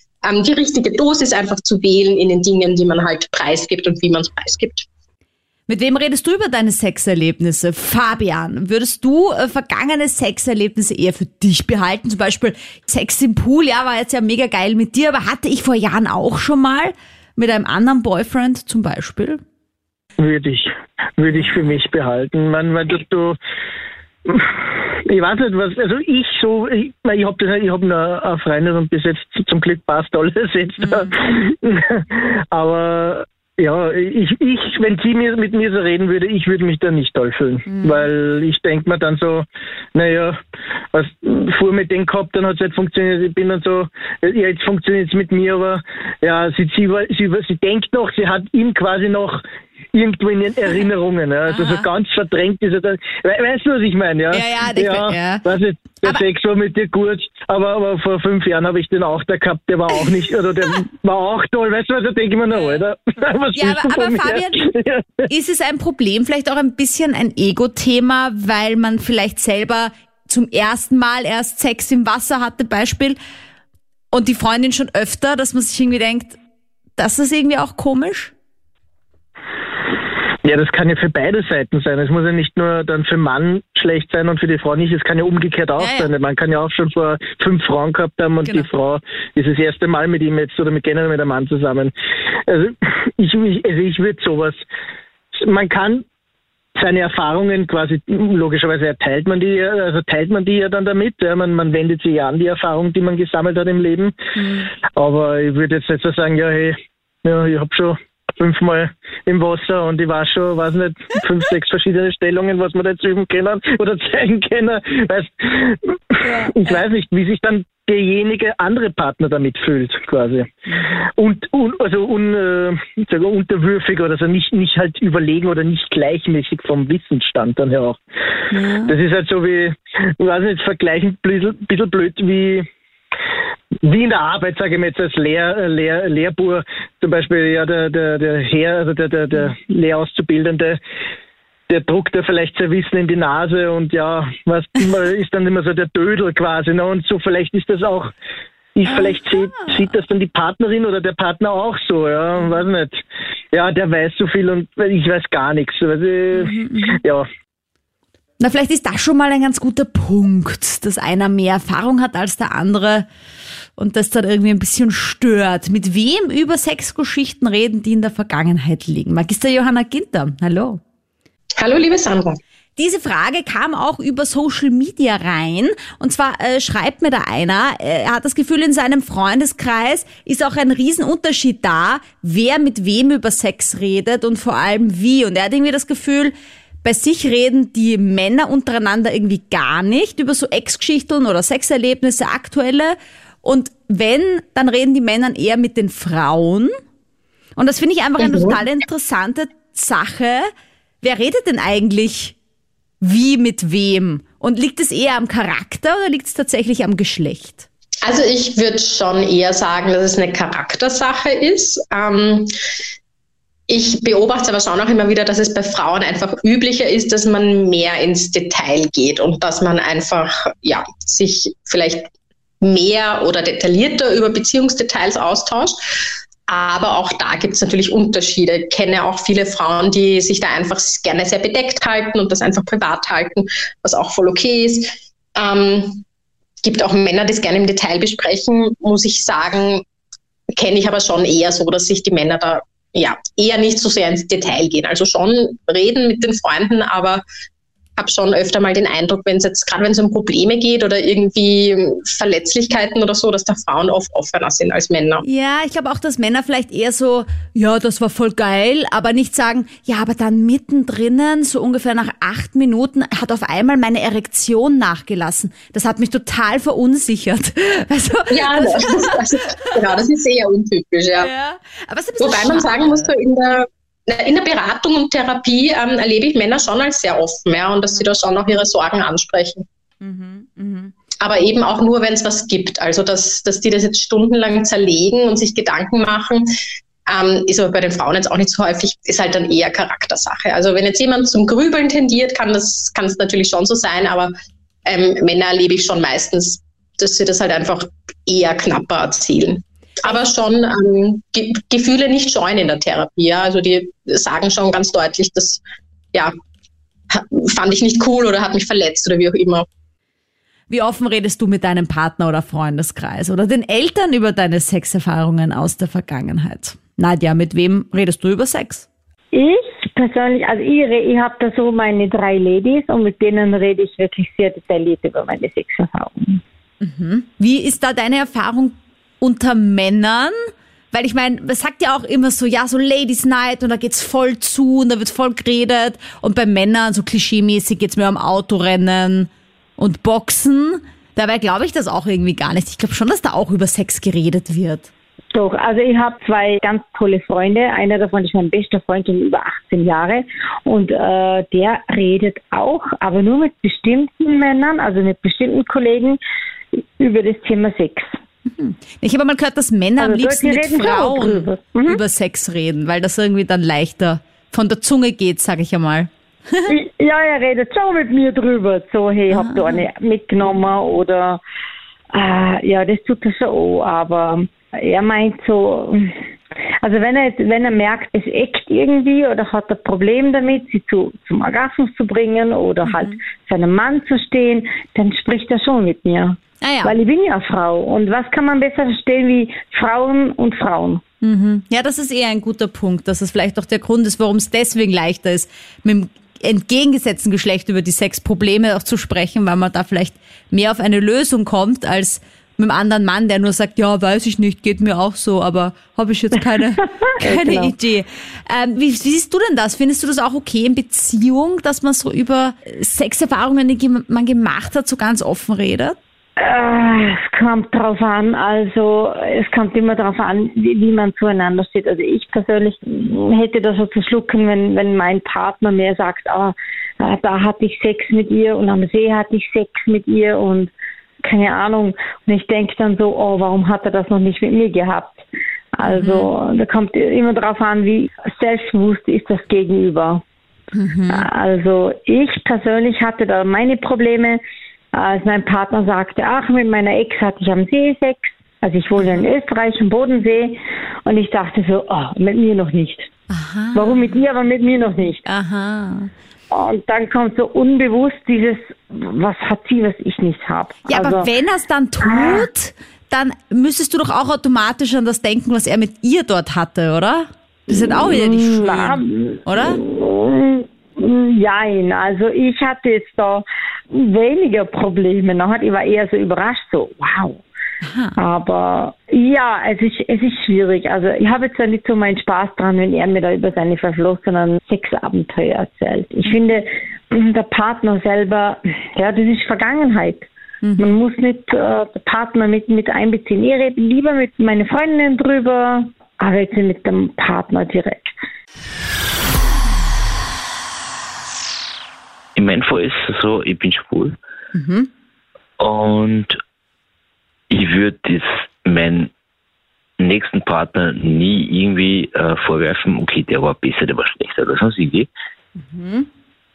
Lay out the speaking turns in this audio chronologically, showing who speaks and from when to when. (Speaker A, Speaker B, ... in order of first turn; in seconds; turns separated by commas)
Speaker A: 0.2-4.8, Speaker B: 5.7-19.4, Speaker C: 20.2-23.4, Speaker B: 21.3-21.6, Speaker C: 24.3-40.4, Speaker B: 30.8-31.1, Speaker B: 37.7-38.1, Speaker C: 40.9-49.4, Speaker C: 49.9-65.3, Speaker B: 51.5-51.8, Speaker B: 54.3-55.4, Speaker B: 62.5-62.8, Speaker B: 63.5-64.7, Speaker B: 65.3-73.2, Speaker B: 74.1-76.4, Speaker B: 77.0-78.3, Speaker C: 80.4-91.9, Speaker B: 85.8-86.1, Speaker B: 88.4-88.7, Speaker C: 92.5-94.6, Speaker C: 95.3-96.0, Speaker C: 96.8-104.1, Speaker B: 104.3-104.7, Speaker C: 105.0-120.5, Speaker B: 116.2-116.8, Speaker B: 120.7-121.0, Speaker C: 121.2-128.0, Speaker B: 128.5-128.9, Speaker C: 128.8-132.7, Speaker C: 133.8-140.8, Speaker C: 141.7-148.1, Speaker C: 148.7-157.3, Speaker B: 148.8-149.7, Speaker B: 156.3-157.0, Speaker B: 158.4-163.1, Speaker B: 163.8-170.8, Speaker A: 171.6-172.4, Speaker B: 172.8-186.3, Speaker B: 186.8-196.7, Speaker B: 197.6-200.5, Speaker A: 198.2-198.6, Speaker B: 201.0-202.3, Speaker B: 203.0-207.7, Speaker A: 208.0-212.5, Speaker A: 213.7-222.1, Speaker A: 222.6-225.8, Speaker A: 226.5-236.0, Speaker A: 236.6-239.8, Speaker A: 240.6-247.2, Speaker A: 248.0-255.2, Speaker B: 255.2-269.7, Speaker A: 268.3-271.3, Speaker B: 271.2-273.1, Speaker A: 272.2-279.6, Speaker B: 280.0-280.9, Speaker A: 281.2-286.5, Speaker A: 287.1-294.3, Speaker A: 294.9-305.6, Speaker A: 307.1-309.6, Speaker B: 310.7-318.9, Speaker D: 319.3-326.4, Speaker B: 326.8-344.9, Speaker D: 345.3-356.2, Speaker D: 356.8-358.1, Speaker B: 358.5-366.7, Speaker D: 360.0-362.0, Speaker D: 366.7-371.4, Speaker B: 369.3-369.9, Speaker D: 372.1-376.2, Speaker D: 376.8-391.0, Speaker B: 382.9-383.1, Speaker B: 386.6-386.9, Speaker B: 391.2-415.9, Speaker D: 407.1-407.7, Speaker D: 416.4-430.7, Speaker D: 431.2-440.2, Speaker B: 435.8-436.3, Speaker B: 440.7-441.3, Speaker D: 441.1-444.4, Speaker D: 444.9-453.1, Speaker B: 449.0-449.2, Speaker B: 453.3-454.2, Speaker D: 453.7-455.2, Speaker B: 455.2-456.1, Speaker D: 456.5-461.3, Speaker B: 460.9-469.8, Speaker D: 462.0-462.5, Speaker D: 467.7-477.4, Speaker B: 477.8-478.2, Speaker D: 478.2-498.1, Speaker B: 490.6-491.0, Speaker E: 502.4-504.2, Speaker B: 504.5-504.9, Speaker E: 505.6-506.4, Speaker E: 507.5-509.1, Speaker E: 510.0-515.1, Speaker B: 515.6-516.1